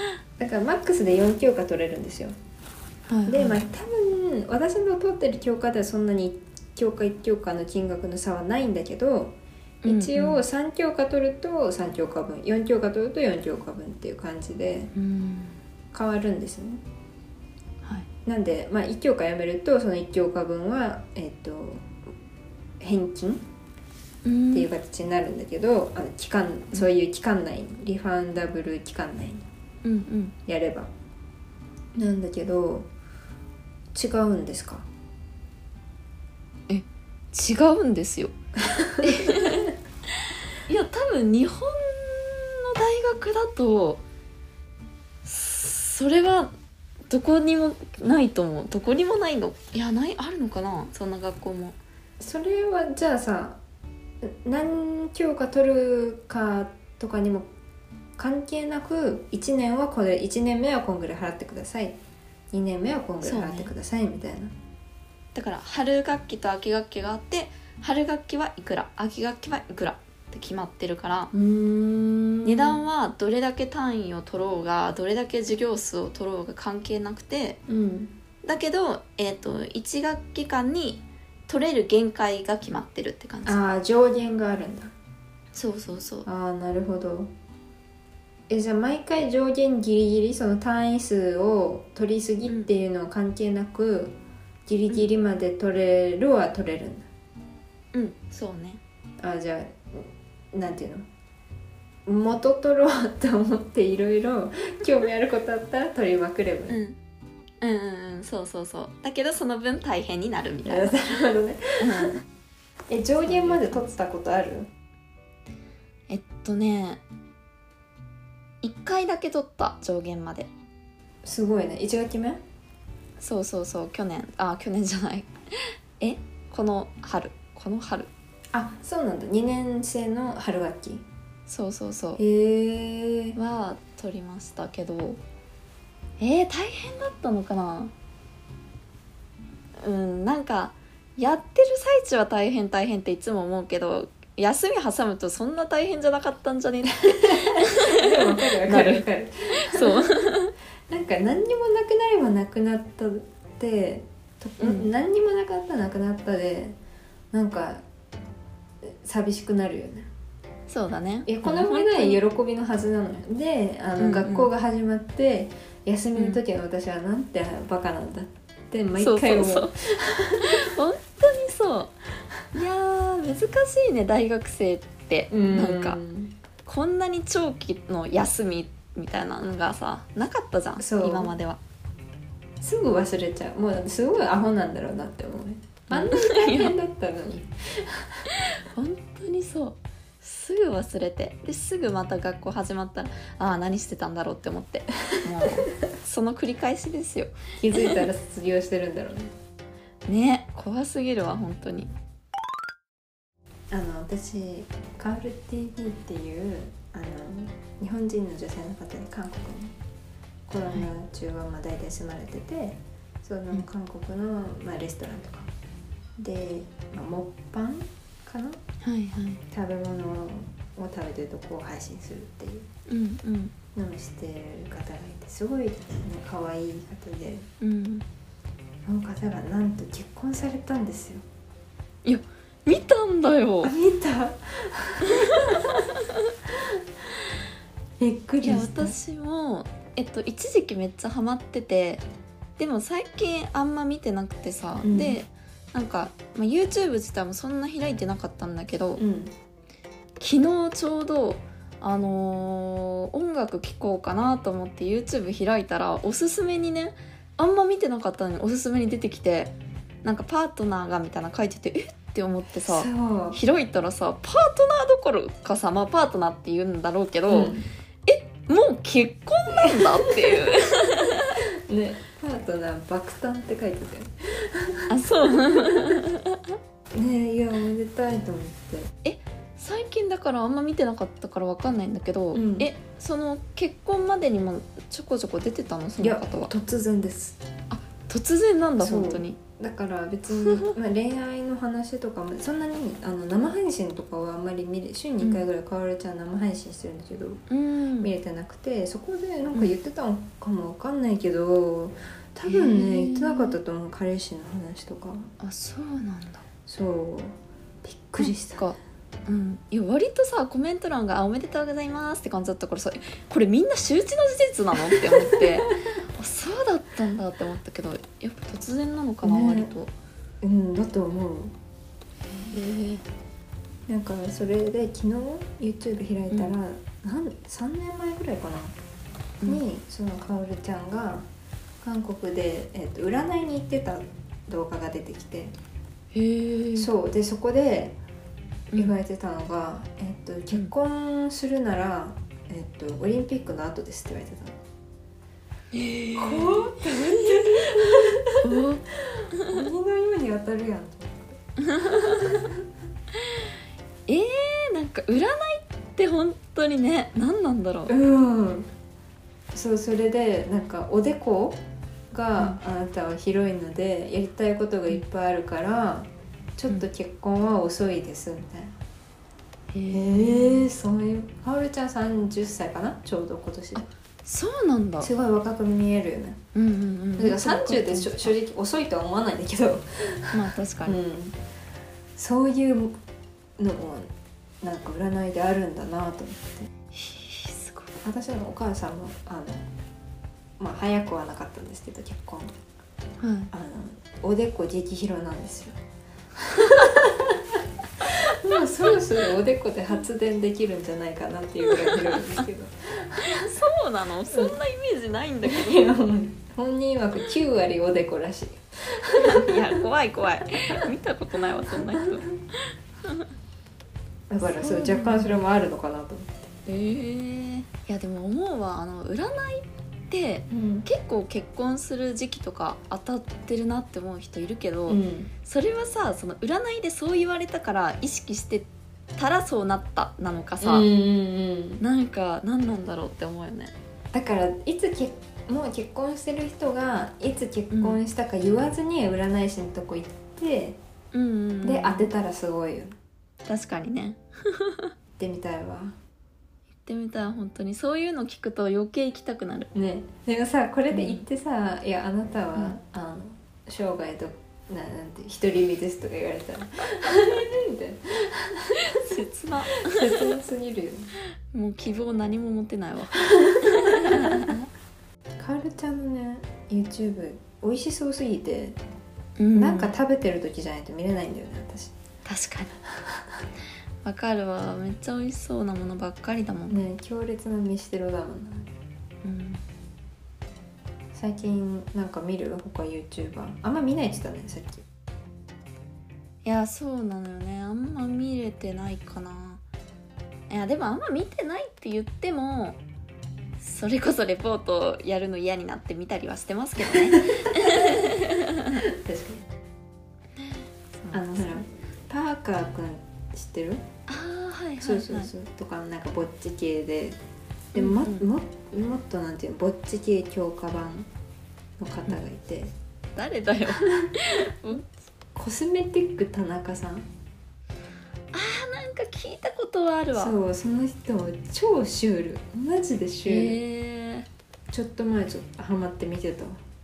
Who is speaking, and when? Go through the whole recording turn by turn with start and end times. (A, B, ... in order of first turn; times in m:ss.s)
0:00.4-0:02.3 A
0:03.1-0:03.6 B
0:03.3-0:14.9 A
0:09.8-0:10.4 B
0:14.9-0:15.6 B
0:15.9-0:16.8 A
0:18.2-0:21.9 A
0:22.8-0:23.4 A
0:24.2-0:24.7 B
0:24.5-0:29.4 A
0:29.8-0:30.3 B
0:30.4-0:30.9 A
0:31.9-0:32.9 A
0:33.9-0:34.9 A
0:36.7-0:38.3 B
0:38.7-0:39.6 A
0:39.0-0:39.7 B
0:40.6-0:44.0 B
0:45.2-0:46.5 B
0:47.1-0:51.8 B
0:52.2-0:53.6 A
0:54.2-0:57.5 A
0:58.2-1:02.0 A
1:02.5-1:04.5 A
1:03.2-1:03.7 B
1:05.3-1:11.3 B
1:11.3-1:12.8 A
1:12.4-1:17.6 B
1:17.7-1:18.1 A
1:18.4-1:23.6 B
1:23.4-1:24.9 A
1:25.5-1:26.3 B
1:26.2-1:27.3 A
1:28.5-1:37.1 A
1:37.9-1:38.8 B
1:39.2-1:41.0 A
1:42.0-1:46.8 A
1:46.7-1:47.0 B
1:47.6-1:50.9 B
1:50.6-1:52.2 A
1:51.8-1:52.2 B
1:52.9-1:54.7 A
1:53.2-1:53.8 B
1:56.1-1:57.0 B
1:58.6-2:00.5 B
2:01.2-2:02.4 A
2:03.2-2:05.3 B
2:06.0-2:08.1 B
2:08.5-2:11.0 A
2:11.5-2:12.2 B
2:12.2-2:13.4 A
2:13.3-2:15.2 B
2:16.2-2:17.9 B
2:19.8-2:30.5 B
2:27.0-2:30.1 A
2:30.9-2:36.8 A
2:34.6-2:34.9 B
2:37.3-2:37.8 A
2:38.8-2:40.1 A
2:40.7-2:42.2 B
2:41.2-2:50.7 A
2:44.0-2:44.5 B
2:46.2-2:46.4 B
2:49.0-2:49.7 B
2:50.4-2:51.9 B
2:52.5-2:56.0 B
2:55.3-2:56.3 A
2:56.6-3:01.6 B
3:00.8-3:01.3 A
3:02.6-3:08.3 A
3:05.9-3:06.7 B
3:08.3-3:18.0 B
3:17.6-3:19.3 A
3:20.1-3:21.9 B
3:23.7-3:29.8 A
3:30.5-3:35.5 A
3:36.2-3:38.6 A
3:38.8-3:39.4 B
3:39.5-3:42.7 A
3:42.9-3:43.5 B
3:43.7-3:47.5 A
3:47.6-3:48.0 B
3:48.8-3:51.2 A
3:52.0-3:53.7 B
3:53.6-3:55.8 A
3:55.1-3:56.2 B
3:58.0-3:59.0 A
3:58.4-4:02.0 B
4:02.6-4:09.0 B
4:04.8-4:05.2 A
4:09.0-4:09.3 A
4:10.2-4:19.5 B
4:20.0-4:27.5 B
4:22.6-4:23.4 A
4:27.3-4:27.7 A
4:28.0-4:31.4 B
4:29.5-4:30.6 A
4:31.7-4:36.0 A
4:34.9-4:36.6 B
4:36.9-4:38.9 A
4:39.0-4:46.5 B
4:42.3-4:42.7 A
4:46.0-4:47.4 A
4:47.7-4:49.4 B
4:48.8-4:57.4 A
4:55.2-4:55.4 B
4:57.5-4:58.1 B
4:58.0-5:05.3 A
5:02.5-5:03.6 B
5:05.4-5:06.4 B
5:06.7-5:08.6 A
5:08.2-5:19.9 B
5:15.0-5:15.6 A
5:19.2-5:19.7 A
5:20.4-5:21.5 A
5:22.4-5:23.0 B
5:23.9-5:28.7 A
5:26.3-5:26.6 B
5:29.4-5:31.3 A
5:31.8-5:35.5 A
5:36.1-5:36.9 B
5:36.8-5:38.0 A
5:38.7-5:39.0 B
5:38.7-5:44.6 A
5:45.7-5:49.6 B
5:46.2-5:51.4 A
5:51.6-5:52.3 B
5:51.9-5:52.6 A
5:54.1-5:57.9 B
5:57.9-5:58.7 A
5:59.5-6:08.8 A
6:09.7-6:10.7 B
6:09.9-6:13.9 A
6:13.7-6:15.1 B
6:15.0-6:16.4 A
6:16.5-6:18.3 B
6:17.2-6:21.4 A
6:20.3-6:21.0 B
6:22.2-6:23.0 A
6:23.6-6:24.1 A
6:24.6-6:26.7 A
6:26.9-6:27.9 B
6:28.0-6:29.7 A
6:30.6-6:32.5 A
6:33.2-6:33.5 B
6:33.5-6:35.8 A
6:36.4-6:43.5 A
6:41.7-6:42.4 B
6:43.2-6:45.9 B
6:44.3-6:44.6 A
6:45.4-6:49.8 A
6:49.2-6:53.3 B
6:54.3-6:56.5 A
6:54.6-6:55.4 B
6:56.6-7:10.9 B
7:00.5-7:00.9 A
7:04.9-7:05.3 A
7:10.6-7:11.8 A
7:11.8-7:13.7 B
7:14.1-7:20.8 A
7:17.7-7:18.0 B
7:21.1-7:22.1 B
7:21.6-7:23.0 A
7:23.4-7:24.9 B
7:25.2-7:26.0 A
7:26.8-7:29.7 B
7:29.7-7:39.1 A
7:30.9-7:31.2 B
7:38.8-7:40.4 B
7:39.8-7:41.1 A
7:41.5-7:44.7 B
7:43.6-7:44.3 A
7:45.4-7:48.8 A
7:49.4-7:49.9 B
7:49.5-7:51.9 A
7:52.2-7:52.7 B
7:52.9-7:53.3 A
7:54.0-7:56.8 B
7:56.7-7:58.7 A
7:59.2-7:59.6 B
8:01.1-8:04.8 A
8:06.4-8:09.6 B
8:10.5-8:12.8 B
8:13.6-8:18.8 B
8:16.9-8:18.0 A
8:18.8-8:19.4 A
8:21.0-8:21.6 B
8:21.1-8:23.8 A
8:24.1-8:25.3 B
8:24.8-8:27.2 A
8:27.7-8:31.1 A
8:27.7-8:28.3 B
8:31.8-8:32.7 A
8:33.2-8:34.9 B
8:33.8-8:34.1 A
8:35.3-8:37.1 A
8:38.3-8:40.4 B
8:40.1-8:43.6 A
8:43.2-8:44.3 B
8:44.7-8:46.6 A